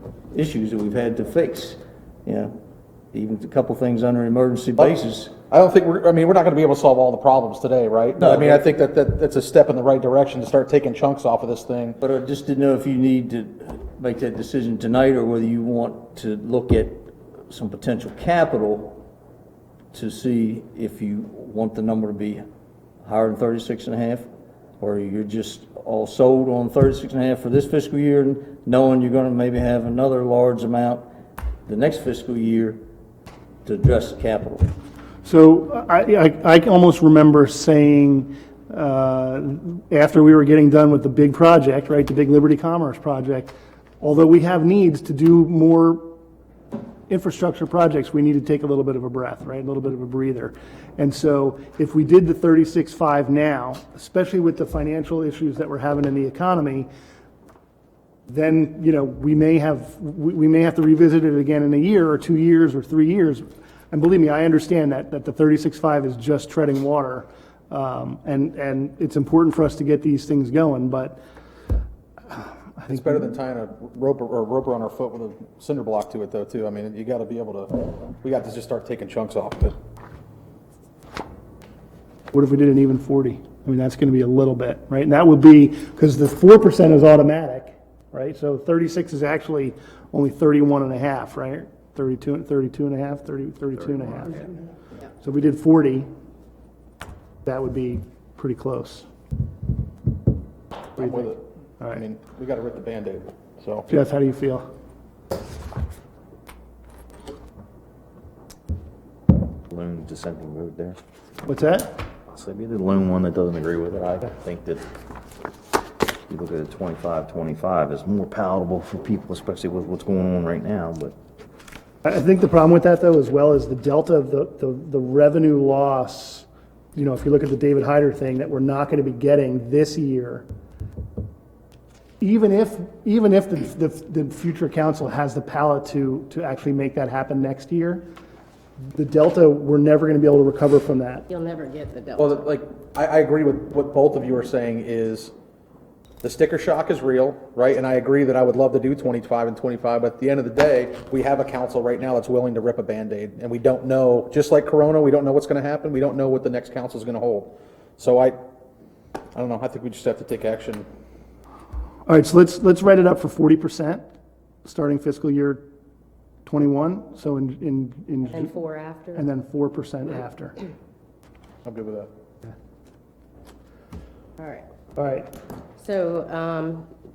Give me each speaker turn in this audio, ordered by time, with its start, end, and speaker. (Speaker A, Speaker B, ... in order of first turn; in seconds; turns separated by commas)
Speaker A: 0.3-2.5, Speaker A: 3.1-5.3, Speaker B: 5.5-12.0, Speaker A: 8.2-8.6, Speaker A: 12.0-19.0, Speaker A: 19.9-22.4, Speaker A: 23.0-24.3, Speaker A: 24.8-31.1, Speaker A: 31.7-32.8, Speaker A: 33.6-34.7, Speaker C: 35.2-46.0, Speaker C: 47.1-56.9, Speaker C: 58.3-71.2, Speaker C: 72.3-72.9, Speaker B: 72.9-79.7, Speaker C: 82.3-94.5, Speaker D: 93.9-94.5, Speaker C: 95.2-96.1, Speaker C: 97.4-99.1, Speaker B: 101.0-104.0, Speaker C: 103.9-104.6, Speaker D: 109.7-111.0, Speaker C: 111.4-112.0, Speaker D: 112.3-114.9, Speaker D: 116.3-121.1, Speaker C: 122.0-130.4, Speaker C: 132.2-138.0, Speaker C: 138.9-141.2, Speaker E: 141.3-142.4, Speaker B: 142.2-145.3, Speaker B: 146.2-158.4, Speaker B: 159.3-160.8, Speaker C: 162.1-164.0, Speaker C: 164.6-165.6, Speaker C: 166.4-168.3, Speaker E: 168.3-169.3, Speaker C: 169.2-170.5, Speaker B: 171.6-172.1, Speaker E: 174.4-174.7, Speaker C: 174.9-175.3, Speaker E: 175.8-176.9